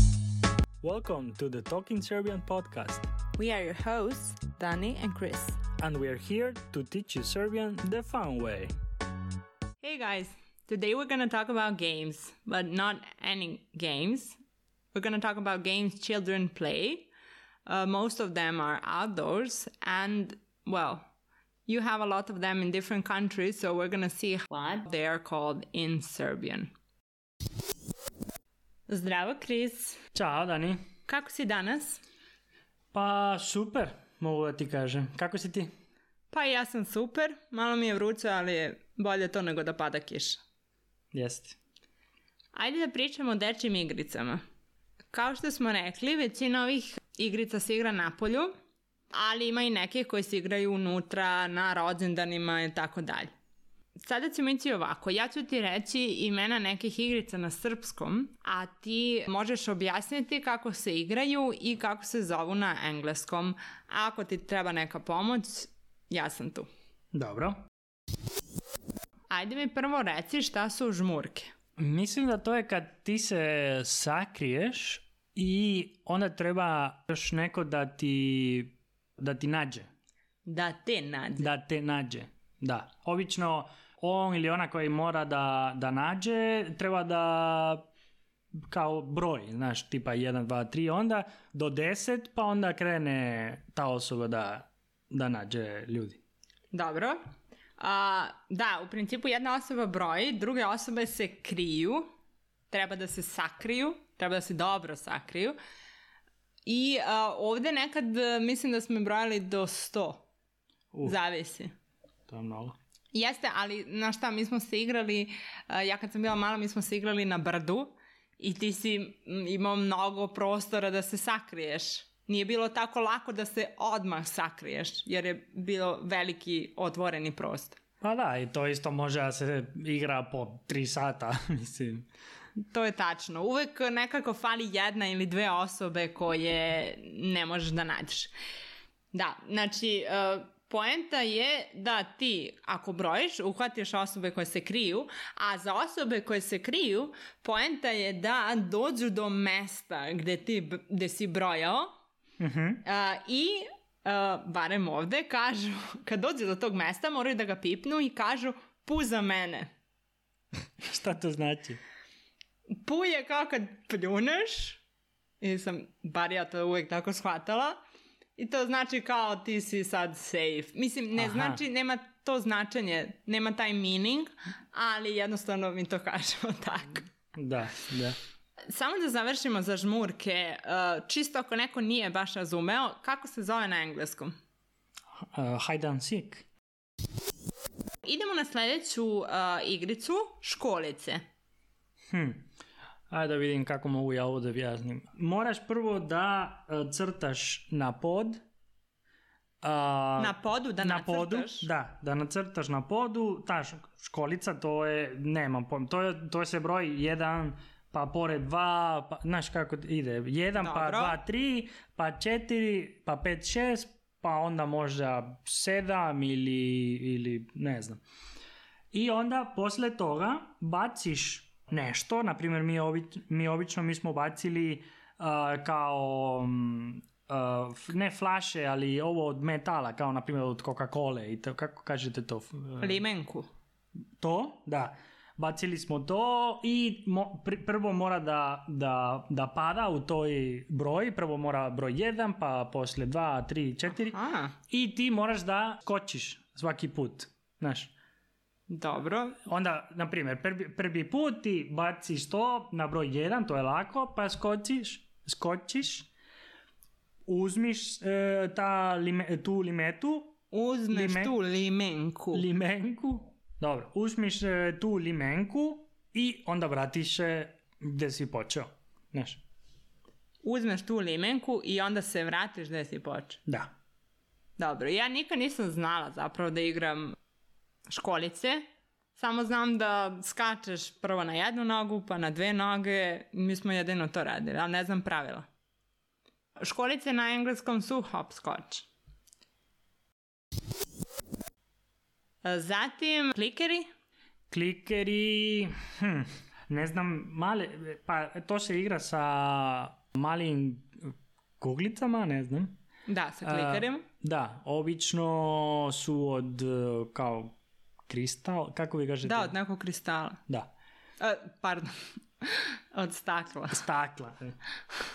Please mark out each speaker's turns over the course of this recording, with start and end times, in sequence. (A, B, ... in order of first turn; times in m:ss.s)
0:00.8-0:03.1 A
0:03.4-0:05.6 B
0:05.8-0:08.7 A
0:09.8-0:14.4 B
0:14.9-0:17.1 B
0:17.7-0:21.0 B
0:21.7-0:26.7 B
0:28.9-0:30.0 B
0:30.1-0:30.8 A
0:31.1-0:32.0 B
0:32.9-0:35.7 A
0:36.3-0:40.4 B
0:41.1-0:41.6 A
0:42.6-0:44.4 B
0:45.1-0:48.5 B
0:49.1-0:53.3 B
0:54.0-1:06.7 B
1:07.1-1:07.6 A
1:09.3-1:11.5 B
1:11.8-1:19.9 A
1:20.4-1:21.5 B
1:21.4-1:27.8 A
1:28.7-1:36.2 A
1:36.7-1:37.2 B
1:37.8-1:42.1 B
1:42.7-1:45.6 B
1:46.7-1:50.2 B
1:51.0-1:51.7 B
1:52.3-1:52.8 A
1:53.1-2:07.8 B
2:08.0-2:12.0 A
2:12.6-2:18.3 B
2:19.1-2:31.9 B
2:32.4-2:32.8 A
2:32.8-2:39.7 B
2:40.8-2:41.8 A
2:42.7-2:44.8 B
2:45.4-2:47.8 B
2:48.4-2:57.1 B
2:51.2-2:51.6 A
2:57.3-2:58.2 A
2:58.7-3:04.3 B
3:05.2-3:06.5 A
3:08.0-3:11.2 B
3:12.1-3:12.5 A
3:13.1-3:18.4 A
3:19.6-3:38.0 A
3:20.2-3:21.7 B
3:30.6-3:31.2 B
3:38.9-3:53.0 A
3:52.8-3:53.5 B
3:54.2-4:04.2 A
4:04.0-4:04.6 B
4:04.7-4:07.9 A
4:08.7-4:09.4 B
4:09.5-4:16.1 A
4:17.3-4:20.4 A
4:20.5-4:22.4 B
4:20.9-4:21.3 A
4:22.3-4:29.4 A
4:30.4-4:33.4 B
4:34.6-4:37.2 B
4:37.9-4:38.6 B
4:39.2-4:45.4 B
4:46.6-4:48.9 B
4:52.4-4:53.9 B
4:54.5-5:02.8 A
5:03.1-5:04.0 B
5:03.4-5:07.6 A
5:08.1-5:09.5 A
5:09.2-5:10.4 B
5:11.2-5:13.8 B
5:13.7-5:14.6 A